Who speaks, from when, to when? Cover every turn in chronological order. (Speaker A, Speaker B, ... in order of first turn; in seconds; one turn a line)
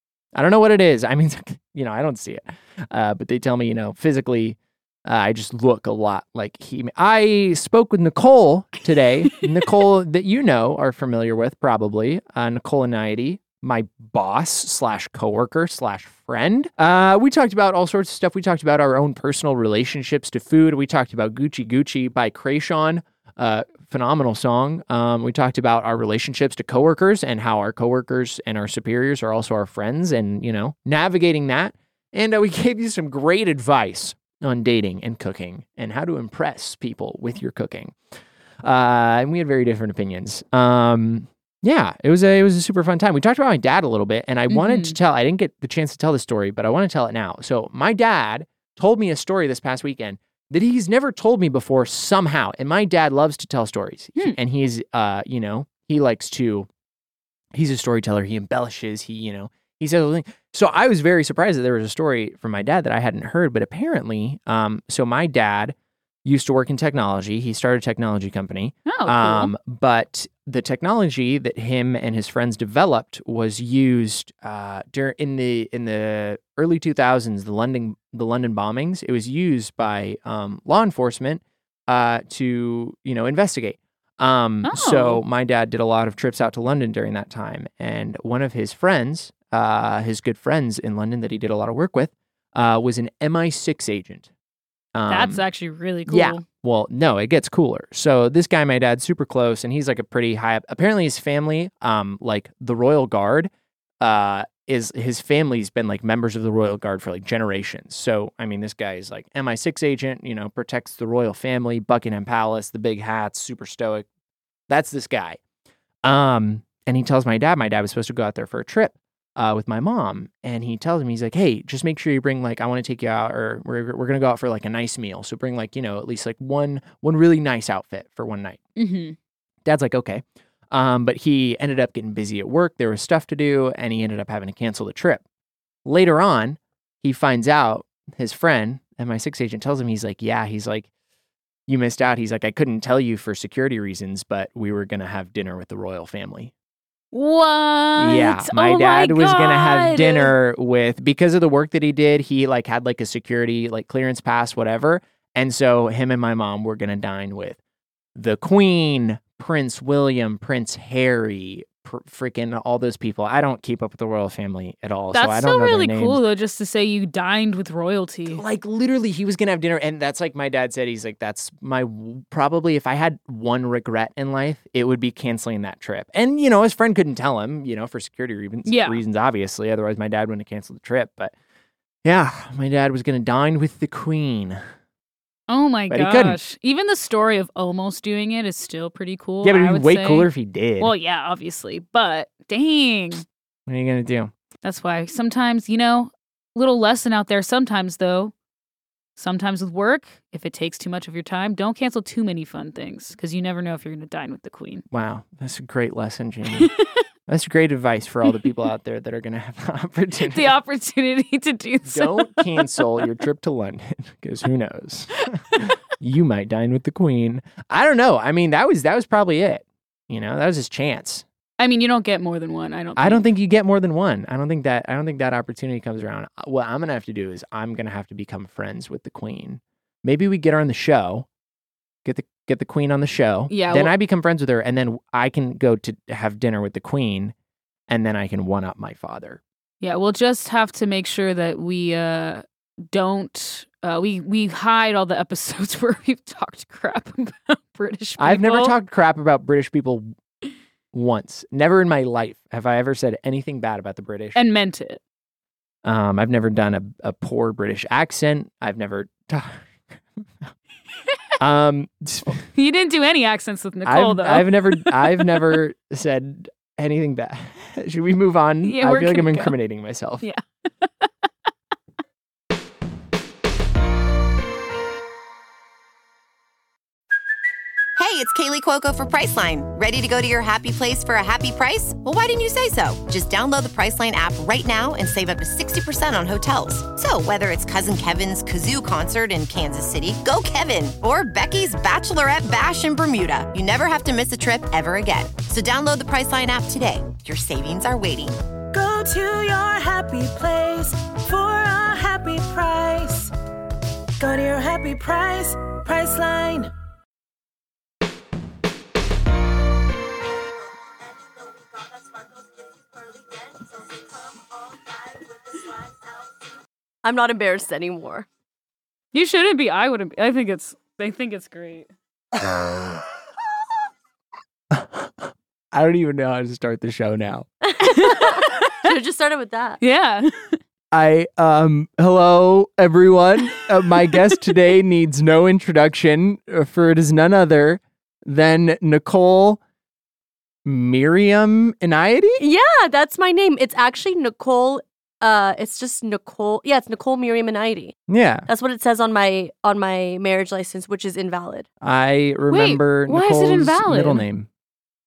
Speaker A: 0.3-38.0
Speaker A: 38.6-56.7
Speaker B: 44.5-45.0
Speaker A: 57.5-94.3
Speaker B: 68.9-69.5
Speaker B: 84.6-85.2
Speaker A: 94.9-95.4
Speaker B: 95.1-96.4
Speaker A: 96.1-114.0
Speaker A: 114.7-115.4
Speaker A: 116.0-128.6
Speaker B: 128.8-129.2
Speaker A: 129.6-135.2
Speaker A: 135.8-140.9
Speaker A: 141.7-146.5
Speaker B: 147.1-148.4
Speaker A: 147.9-157.6
Speaker C: 148.5-150.3
Speaker A: 158.1-166.2
Speaker B: 165.1-168.4
Speaker A: 168.2-181.3
Speaker B: 178.7-179.0
Speaker A: 182.0-184.6
Speaker B: 185.5-190.3
Speaker A: 185.9-186.4
Speaker A: 189.4-190.9
Speaker B: 190.8-193.2
Speaker A: 193.7-194.3
Speaker B: 194.6-198.3
Speaker B: 199.2-204.8
Speaker A: 204.9-206.7
Speaker A: 207.3-210.5
Speaker B: 210.3-213.1
Speaker A: 211.8-221.2
Speaker B: 221.6-223.2
Speaker A: 223.0-231.3
Speaker A: 232.0-237.3
Speaker B: 233.5-233.9
Speaker A: 237.9-239.4
Speaker B: 239.8-248.7
Speaker A: 248.2-250.1
Speaker A: 250.9-254.4
Speaker B: 254.3-255.0
Speaker A: 255.8-260.2
Speaker A: 261.4-262.4
Speaker B: 262.4-265.6
Speaker A: 263.9-270.2
Speaker B: 268.6-269.5
Speaker B: 270.2-271.1
Speaker D: 278.0-298.4
Speaker E: 298.7-303.3
Speaker E: 304.2-306.7
Speaker C: 317.0-318.3
Speaker B: 319.1-321.9
Speaker A: 322.4-322.9
Speaker A: 324.7-327.5
Speaker C: 327.6-329.8
Speaker B: 327.8-328.9
Speaker B: 329.8-330.6
Speaker A: 330.9-339.6
Speaker A: 340.6-342.4
Speaker C: 342.4-347.9
Speaker A: 348.1-348.5
Speaker C: 348.5-351.7
Speaker A: 351.8-354.5
Speaker B: 352.5-354.2